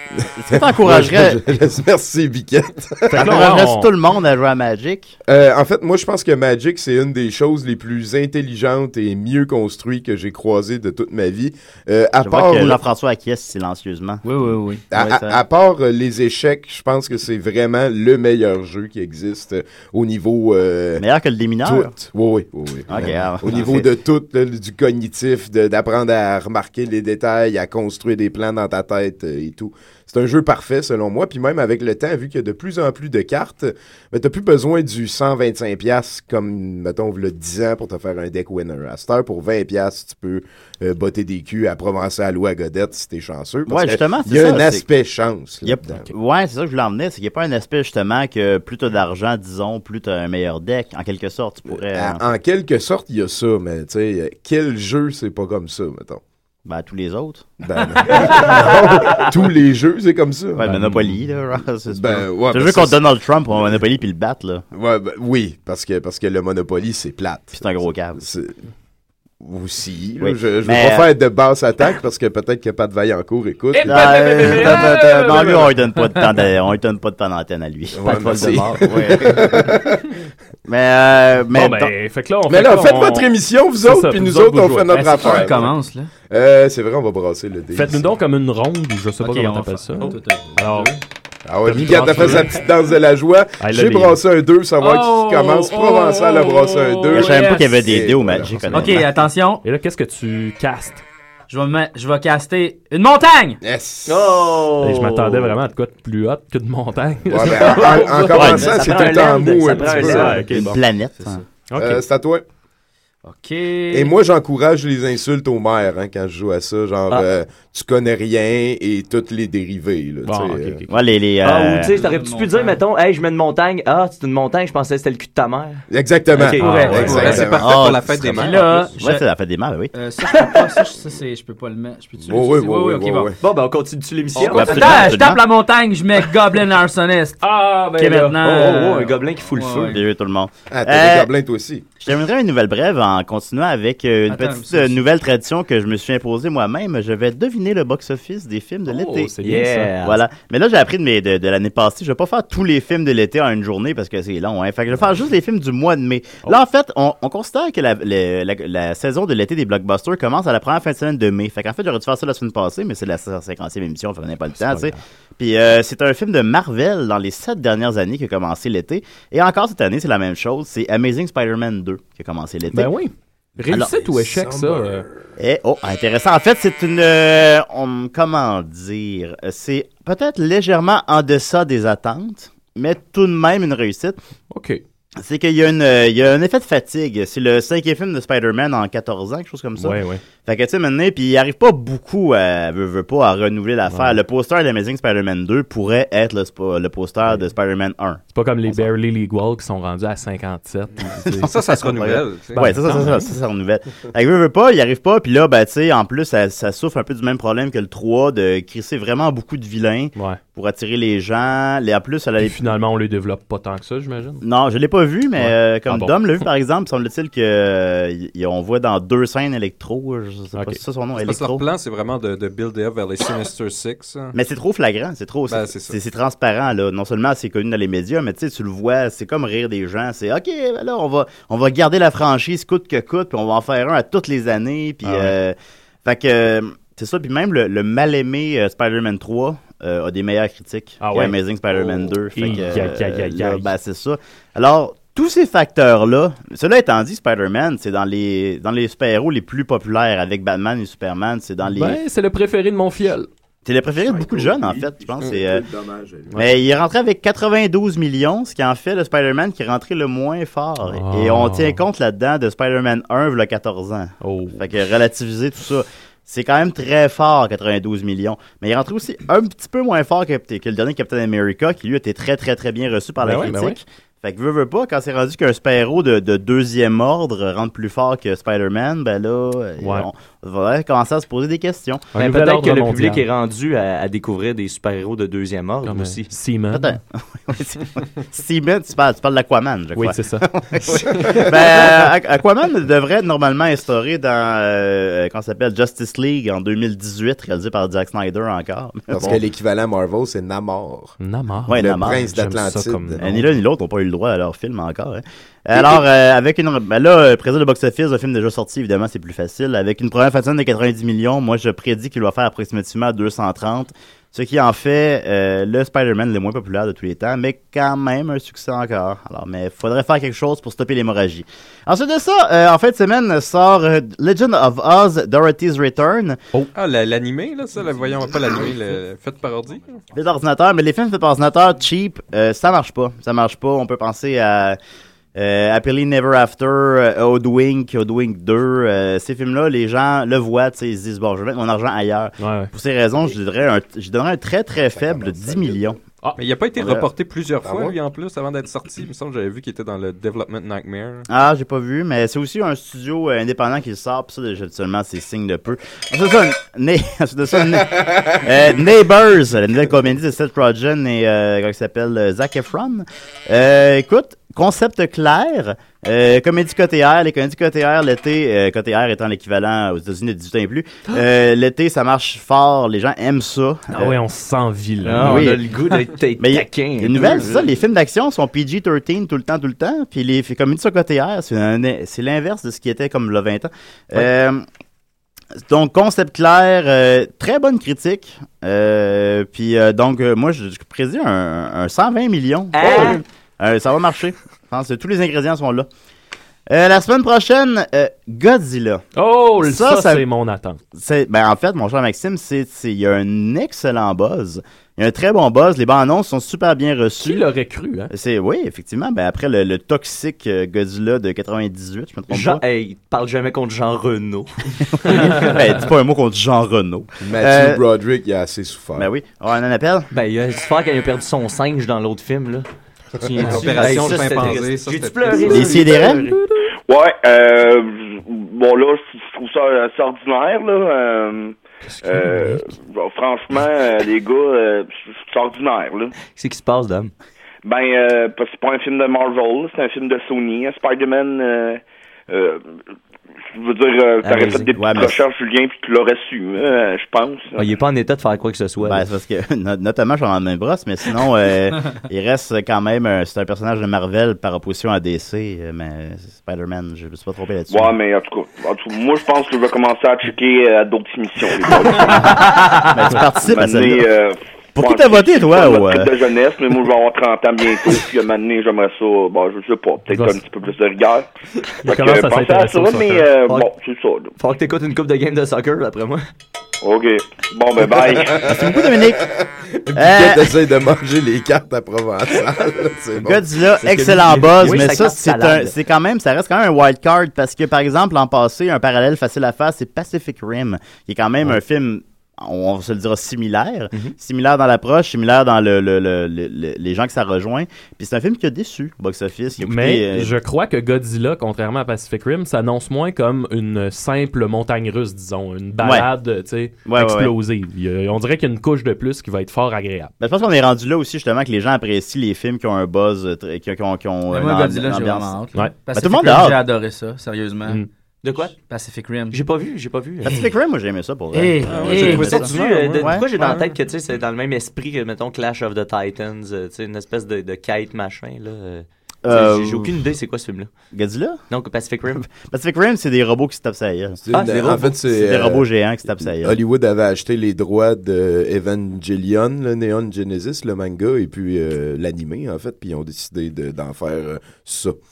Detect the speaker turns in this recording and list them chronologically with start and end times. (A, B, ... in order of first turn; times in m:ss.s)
0:00.2-0:03.5 A
0:00.4-0:01.4 B
0:03.1-0:05.2 B
0:03.1-0:03.9 C
0:05.3-0:12.8 A
0:12.2-0:14.2 B
0:14.2-0:15.4 D
0:14.9-0:21.0 A
0:15.0-0:15.2 B
0:21.0-0:21.9 B
0:21.6-0:46.1 A
0:22.9-0:23.9 B
0:43.7-0:44.8 B
0:45.6-0:52.2 B
0:51.7-0:56.2 A
0:56.7-0:59.2 B
0:57.6-1:01.0 A
1:00.6-1:04.6 B
1:00.6-1:01.2 C
1:01.9-1:03.0 A
1:04.7-1:08.6 A
1:07.6-1:08.3 B
1:09.4-1:14.8 A
1:10.2-1:11.1 B
1:13.7-1:15.9 C
1:13.8-1:19.7 B
1:17.9-1:20.1 A
1:18.0-1:19.1 E
1:20.7-1:21.9 B
1:21.5-1:25.6 C
1:22.5-1:25.7 A
1:24.9-1:26.1 D
1:26.3-1:28.0 A
1:27.7-1:31.0 C
1:29.2-1:30.9 D
1:31.4-1:38.9 A
1:31.6-1:32.6 C
1:33.6-1:34.2 C
1:34.8-1:37.7 D
1:35.8-1:37.1 C
1:37.1-1:39.1 B
1:38.5-1:39.1 C
1:38.7-1:39.6 D
1:39.6-1:41.0 C
1:41.5-1:43.6 D
1:43.6-1:44.4 A
1:44.1-1:45.5 E
1:44.8-1:48.9 C
1:47.3-1:50.6 A
1:47.9-1:50.5 E
1:48.4-1:48.7 B
1:49.8-1:50.9 C
1:50.3-1:51.4 B
1:51.6-1:52.0 C
1:51.8-1:52.4 A
1:53.2-1:54.1 D
1:53.9-2:00.8 A
2:00.2-2:01.0 C
2:00.9-2:02.0 B
2:01.4-2:07.0 E
2:01.9-2:02.8 D
2:05.9-2:08.4 A
2:06.6-2:07.4 D
2:06.6-2:07.4 C
2:07.0-2:08.9 F
2:07.4-2:09.9 B
2:08.4-2:09.2 D
2:09.9-2:13.3 D
2:12.2-2:13.4 A
2:13.4-2:15.2 E
2:14.4-2:15.4 B
2:14.5-2:20.0 D
2:17.4-2:18.4 C
2:18.4-2:20.0 E
2:19.9-2:21.3 B
2:20.7-2:21.9 A
2:22.0-2:29.3 B
2:24.3-2:25.0 D
2:28.9-2:29.9 C
2:29.4-2:30.2 E
2:30.0-2:52.9 B
2:44.6-2:45.0 C
2:52.7-2:55.1 C
2:53.7-2:54.0 B
2:53.8-2:55.1 A
2:55.4-3:04.2 B
3:04.5-3:04.8 C
3:05.2-3:18.9 B
3:09.8-3:10.2 C
3:13.9-3:14.2 C
3:18.3-3:21.5 C
3:21.3-3:32.6 B
3:21.4-3:22.7 F
3:22.5-3:23.3 C
3:32.4-3:34.4 C
3:34.4-3:41.6 B
3:35.4-3:36.4 C
3:40.5-3:40.8 C
3:41.2-3:44.3 F
3:44.3-4:12.0 B
3:45.5-3:46.0 F
3:55.0-3:55.4 C
4:01.0-4:01.4 C
4:02.3-4:03.7 C
4:11.7-4:13.3 C
4:13.6-4:15.7 B
4:14.0-4:16.4 A
4:16.3-4:16.6 C
4:16.4-4:42.1 B
4:20.8-4:21.8 C
4:24.2-4:24.6 C
4:33.2-4:33.8 C
4:39.8-4:40.1 C
4:42.1-4:43.2 C
4:42.2-4:46.3 E
4:45.8-4:47.0 C
4:46.7-4:59.4 B
4:50.0-4:50.5 C
4:59.1-5:01.2 A
5:01.2-5:03.5 C
5:01.7-5:02.3 B
5:01.7-5:03.2 A
5:03.2-5:26.4 B
5:26.8-5:30.0 F
5:30.1-5:34.8 B
5:35.4-5:46.0 B
5:42.4-5:42.7 C
5:45.0-5:45.9 A
5:46.4-5:51.3 F
5:46.8-5:47.1 B
5:47.6-5:48.0 A
5:51.3-6:14.2 B
5:57.8-5:58.4 A
6:13.9-6:15.6 C
6:15.0-6:17.7 E
6:15.1-6:15.6 B
6:16.4-6:24.6 B
6:25.7-6:35.9 B
6:32.7-6:33.2 E
6:36.7-6:39.0 B
6:39.2-6:40.8 C
6:39.6-6:40.2 B
6:41.0-6:47.5 B
6:47.2-6:48.1 C
6:48.1-6:52.6 B
6:52.3-6:54.5 E
6:54.9-6:57.8 B
6:55.0-6:55.5 E
6:57.2-6:59.1 A
6:59.0-7:00.1 B
7:00.1-7:02.7 E
7:03.2-7:06.4 E
7:03.4-7:04.6 B
7:03.4-7:05.8 F
7:05.4-7:06.3 B
7:06.0-7:06.6 C
7:06.9-7:16.1 G
7:12.1-7:12.6 C
7:16.3-7:17.1 E
7:17.6-7:22.7 G
7:23.5-7:27.6 G
7:24.2-7:24.7 E
7:24.8-7:25.2 B
7:27.6-7:29.0 E
7:28.8-7:38.0 B
7:37.7-7:42.4 G
7:42.0-7:44.1 B
7:42.4-7:42.8 D
7:43.4-7:51.3 G
7:44.8-7:46.1 B
7:50.1-7:50.4 C
7:51.8-7:53.3 C
7:51.8-7:54.3 G
7:54.4-7:56.2 E
7:56.8-7:58.4 G
7:58.0-8:03.5 A
7:58.4-7:59.3 B
8:00.0-8:00.5 B
8:03.2-8:20.4 B
8:03.8-8:05.7 E
8:19.6-8:30.1 C
8:25.8-8:26.1 B
8:26.9-8:27.3 B
8:30.2-8:36.6 B
8:34.3-8:37.8 D
8:35.5-8:35.8 C
8:38.2-8:38.6 E
8:38.5-8:39.4 D
8:39.3-8:40.4 E
8:40.2-8:43.3 B
8:41.3-8:42.4 D
8:41.7-8:43.7 F
8:41.9-8:50.7 E
8:49.2-8:50.0 B
8:50.9-8:51.4 B
8:51.5-8:52.2 E
8:52.2-8:54.2 B
8:54.2-9:05.0 A
8:54.3-8:55.0 E
8:55.0-8:56.6 B